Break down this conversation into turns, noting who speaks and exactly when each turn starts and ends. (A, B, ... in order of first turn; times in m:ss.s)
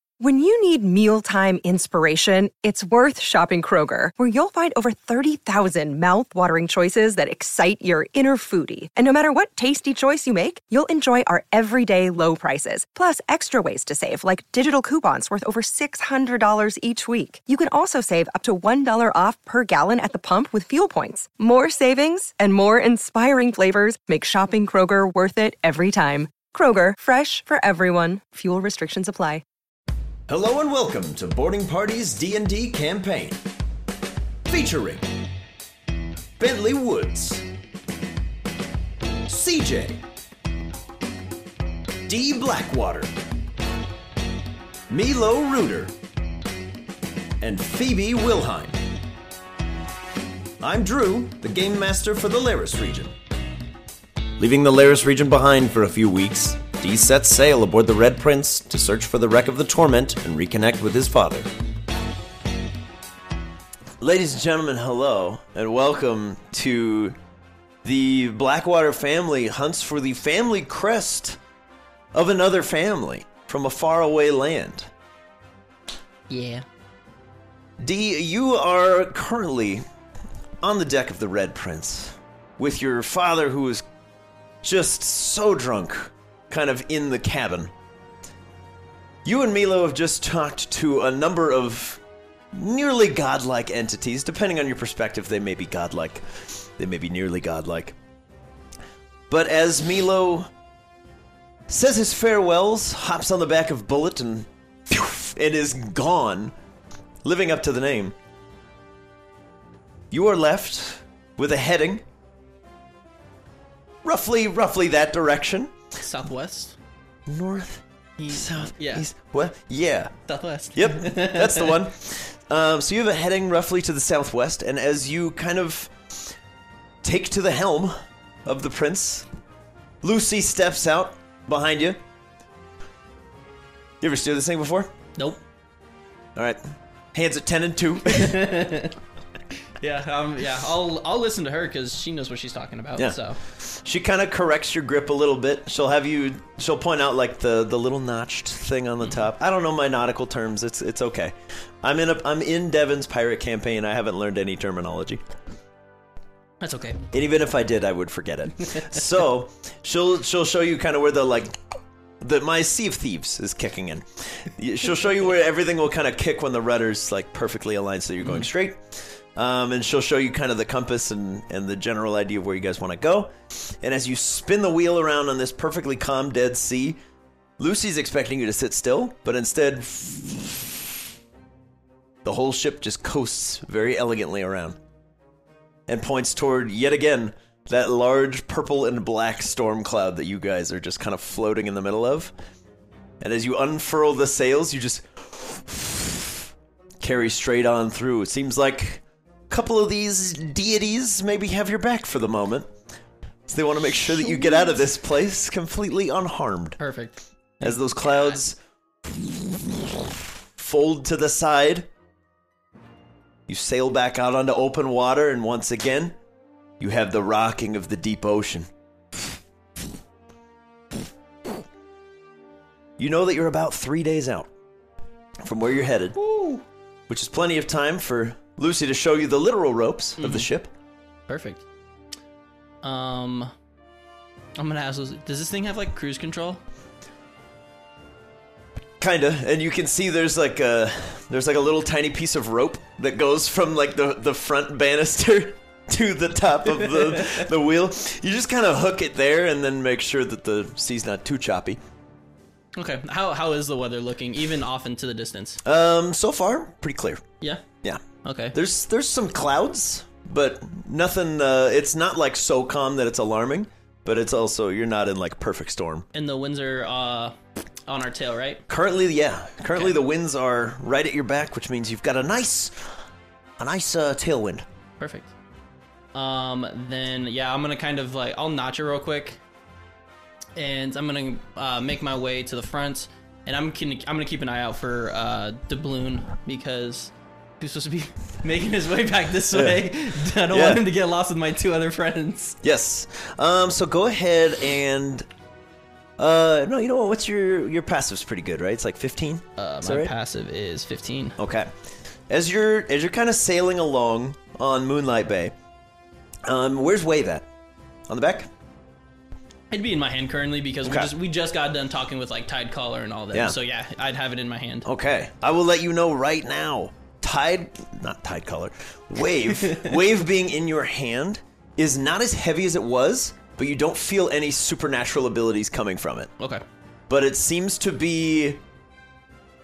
0:00.2-0:29.4 A
0:30.3-0:33.4 B
0:34.5-0:35.1 B
0:36.4-0:37.5 B
0:39.3-0:40.0 B
0:42.1-0:43.2 B
0:44.9-0:46.0 B
0:47.4-0:48.8 B
0:50.6-0:53.1 B
0:54.4-1:01.5 B
1:04.0-1:07.2 B
1:07.8-1:11.4 B
1:12.1-1:14.9 B
1:16.3-1:16.6 C
1:17.8-1:19.8 B
1:20.6-1:23.8 B
1:24.6-1:27.7 B
1:29.2-1:32.0 B
1:32.5-1:38.0 B
1:39.3-1:40.5 B
1:41.7-1:46.5 B
1:47.2-1:48.1 B
1:50.1-1:52.0 B
1:54.0-1:55.8 B
1:56.0-1:56.8 C
1:57.3-2:00.1 B
1:58.2-1:59.0 C
2:00.3-2:01.9 C
2:00.8-2:06.4 B
2:07.0-2:09.3 B
2:10.0-2:12.0 B
2:14.0-2:14.9 B
2:16.4-2:16.6 B
2:17.1-2:18.6 B
2:18.1-2:19.0 C
2:19.8-2:23.4 C
2:23.0-2:35.2 B
2:36.6-2:37.0 C
2:37.1-2:41.6 B
2:42.2-2:57.0 B
2:57.6-3:01.0 B
3:02.2-3:04.8 B
3:05.9-3:12.3 B
3:13.2-3:16.5 B
3:17.0-3:22.7 B
3:23.5-3:26.8 B
3:24.3-3:24.7 C
3:26.8-3:28.4 C
3:27.6-3:31.9 B
3:33.5-3:36.2 B
3:36.8-3:38.7 B
3:43.0-3:44.5 B
3:45.4-3:46.2 B
3:46.2-3:46.6 C
3:47.1-3:50.7 B
3:50.2-3:50.5 C
3:51.3-3:51.6 C
3:52.8-3:53.5 C
3:54.6-3:56.6 C
3:59.0-4:11.8 B
4:07.0-4:07.3 C
4:12.8-4:15.6 C
4:15.6-4:17.2 B
4:18.2-4:18.6 C
4:18.5-4:26.1 B
4:26.1-4:27.4 C
4:27.9-4:28.6 C
4:28.7-4:32.9 B
4:33.6-4:34.6 B
4:35.0-4:35.3 C
4:36.1-4:39.4 C
4:40.6-4:52.6 C
4:49.5-4:49.9 B
4:50.5-4:50.8 B
4:52.6-4:55.3 B
4:56.2-5:00.1 B
4:59.6-5:01.4 C
5:01.4-5:01.7 B
5:02.3-5:05.5 B
5:06.5-5:07.5 B
5:08.1-5:08.5 B
5:09.7-5:14.9 C
5:10.8-5:11.1 B
5:14.8-5:26.3 B
5:19.6-5:19.9 C
5:27.1-5:28.6 B